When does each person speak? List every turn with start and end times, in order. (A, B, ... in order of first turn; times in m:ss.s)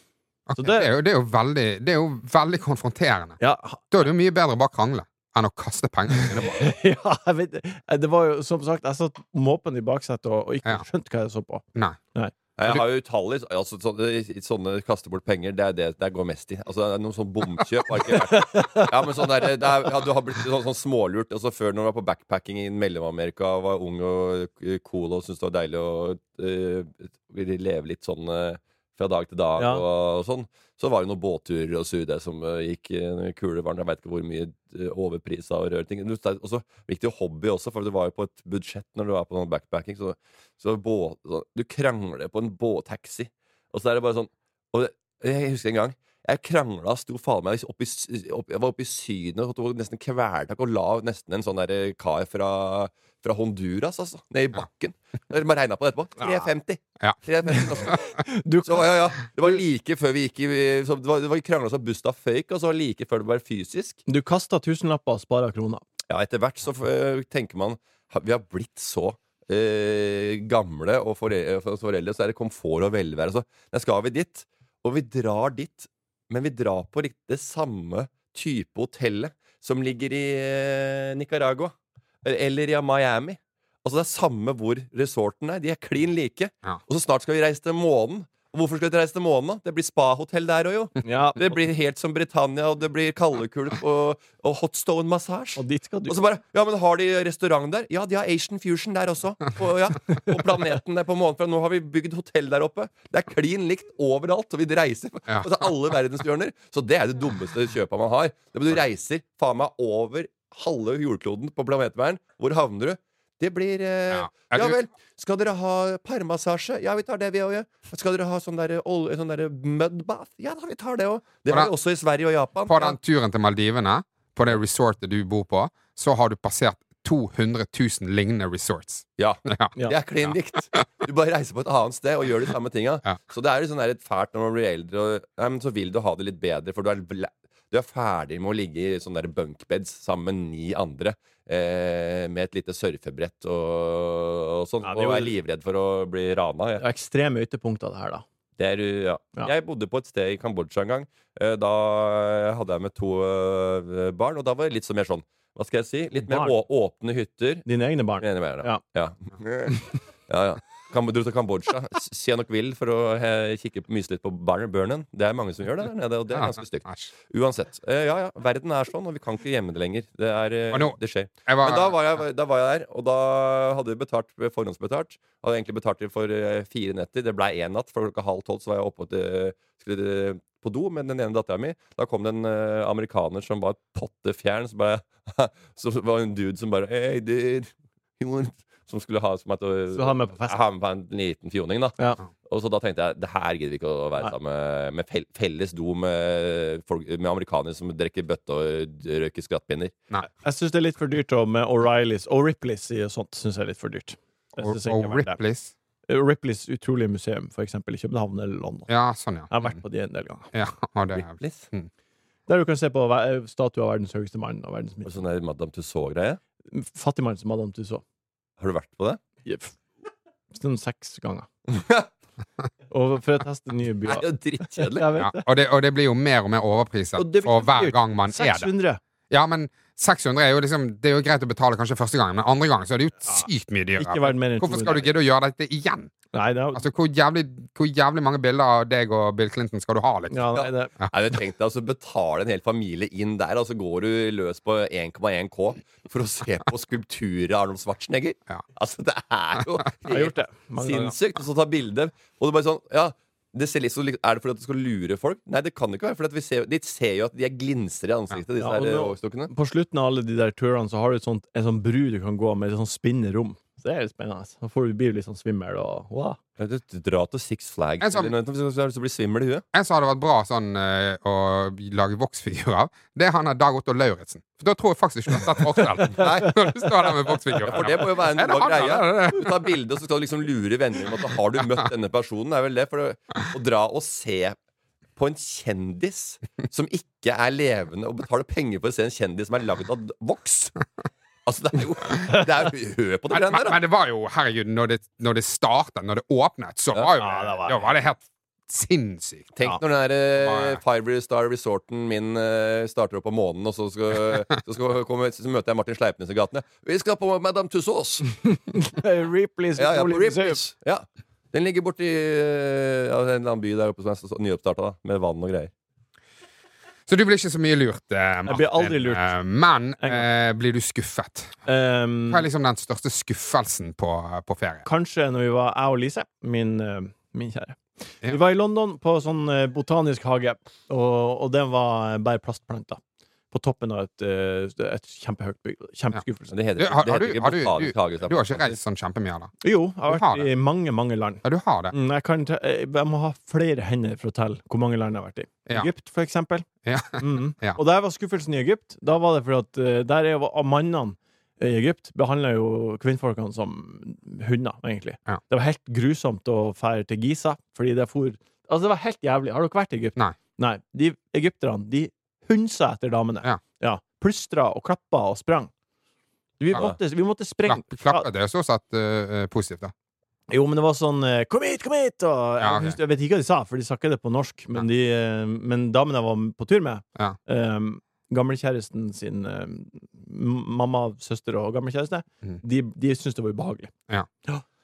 0:00.5-0:03.4 A
0:00.6-0:00.9 B
0:03.4-0:03.8 B
0:03.9-0:06.6 A
0:06.1-0:11.6 B
0:12.6-0:58.0 C
0:18.2-0:18.9 B
0:29.6-0:29.8 B
0:57.9-0:58.9 B
0:58.6-1:04.0 C
1:04.1-1:05.8 B
1:06.1-2:03.0 C
1:31.0-1:31.5 B
1:35.6-1:36.2 B
1:54.1-1:54.8 A
2:02.7-2:10.3 A
2:09.2-2:26.8 C
2:24.8-2:25.3 B
2:26.8-2:28.2 B
2:28.6-2:37.7 C
2:36.2-2:36.5 B
2:37.6-2:38.8 B
2:38.2-3:20.0 C
2:46.3-2:47.1 A
2:51.5-2:52.0 A
3:09.9-3:10.6 B
3:20.2-3:25.4 B
3:24.6-3:25.7 A
3:26.1-3:28.9 B
3:28.9-3:29.8 A
3:29.5-3:30.5 B
3:30.5-3:31.9 A
3:31.1-3:31.7 C
3:32.5-3:35.2 B
3:35.0-3:36.4 C
3:36.7-3:38.0 B
3:38.6-3:39.2 C
3:39.4-3:39.8 B
3:40.5-3:41.5 B
3:41.7-3:42.1 C
3:42.9-3:45.4 B
3:44.1-3:45.1 C
3:45.2-3:48.7 A
3:47.2-3:49.0 B
3:49.3-3:56.1 A
3:53.3-3:55.1 B
3:56.3-3:56.8 B
3:56.7-4:00.5 A
4:00.3-4:00.9 B
4:00.5-4:19.5 C
4:10.1-4:11.1 B
4:18.6-4:26.4 B
4:26.6-4:29.6 C
4:28.0-4:28.3 A
4:29.7-4:39.7 A
4:36.1-4:36.6 C
4:37.6-4:44.6 C
4:45.2-4:50.7 C
4:51.4-4:53.8 C
4:53.3-4:59.5 A
4:57.2-4:57.8 B
4:59.5-5:08.4 C
5:00.4-5:00.8 A
5:08.4-5:10.6 B
5:09.8-5:15.7 C
5:17.1-5:21.5 A
5:18.5-5:19.3 B
5:20.0-5:20.2 B
5:21.6-5:22.4 B
5:22.3-5:24.8 A
5:24.8-5:36.5 B
5:36.5-5:38.8 C
5:36.8-5:39.5 A
5:39.6-5:46.6 B
5:40.1-5:40.5 A
5:41.4-5:41.9 A
5:46.8-5:47.8 A
5:47.2-6:05.7 B
6:06.6-6:08.3 B
6:07.7-6:09.9 A
6:10.5-6:23.9 B
6:12.6-6:13.0 A